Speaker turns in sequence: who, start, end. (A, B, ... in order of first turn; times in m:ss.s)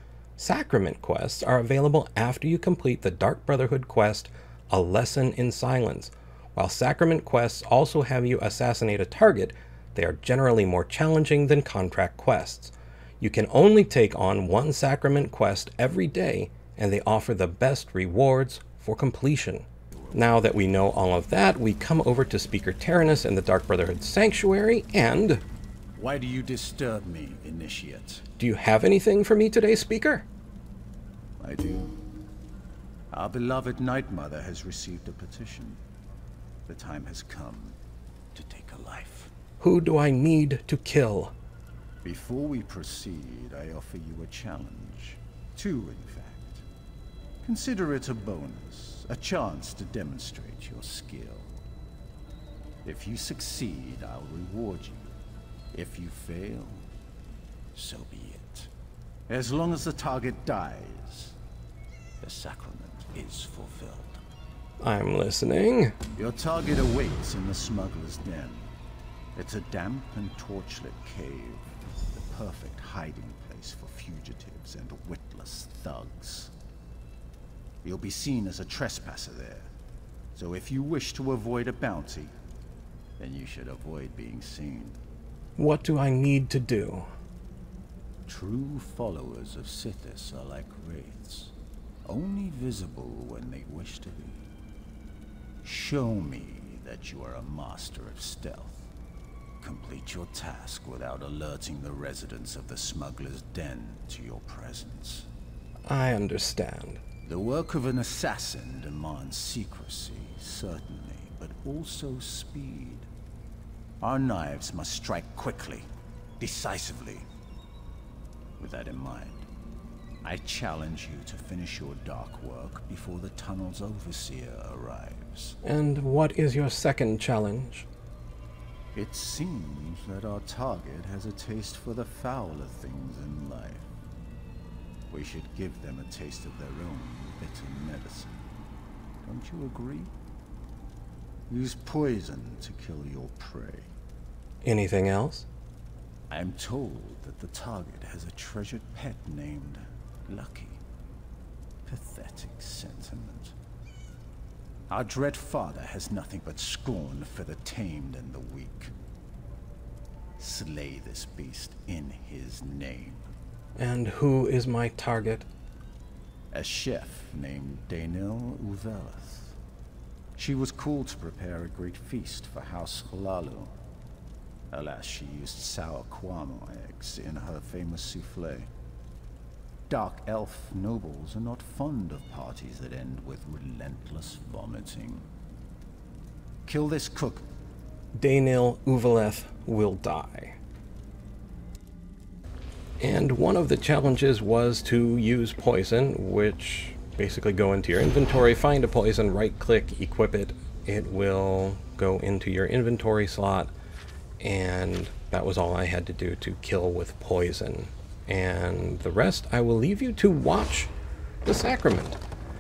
0:00.4-0:25.4 A
0:20.0-0:20.3 B
0:26.0-0:28.2 B
0:28.4-0:30.3 A
0:31.4-0:32.1 B
0:33.1-0:35.8 B
0:36.7-0:37.8 B
0:38.3-0:39.3 B
0:39.6-0:41.3 A
0:42.0-0:46.7 B
0:47.4-0:51.6 B
0:52.8-0:55.1 B
0:55.7-0:56.9 B
0:57.7-0:58.7 B
0:59.3-1:01.4 B
1:02.2-1:04.2 B
1:04.8-1:06.0 A
1:06.2-1:08.7 B
1:09.4-1:16.5 B
1:17.8-1:19.7 B
1:20.4-1:22.3 B
1:23.2-1:25.0 B
1:25.6-1:27.1 A
1:28.3-1:31.6 B
1:32.1-1:34.4 B
1:35.6-1:38.9 B
1:39.6-1:45.3 B
1:45.9-1:47.0 A
1:47.2-1:53.1 B
1:54.0-1:55.8 B
1:56.4-1:57.3 B
1:58.6-1:59.5 B
2:00.2-2:05.6 B
2:05.6-2:07.9 A
2:08.9-2:13.9 B
2:15.1-2:18.4 B
2:19.2-2:20.1 B
2:21.5-2:23.9 B
2:24.6-2:25.5 A
2:26.3-2:30.8 B
2:31.8-2:33.6 B
2:34.9-2:38.9 B
2:40.4-2:43.3 B
2:43.8-2:45.5 A
2:46.5-2:49.6 B
2:50.4-2:53.7 B
2:54.7-2:58.7 B
2:59.9-3:05.3 B
3:06.6-3:07.4 B
3:08.2-3:10.6 A
3:13.0-3:23.7 A
3:24.4-3:30.9 A
3:31.4-3:32.2 A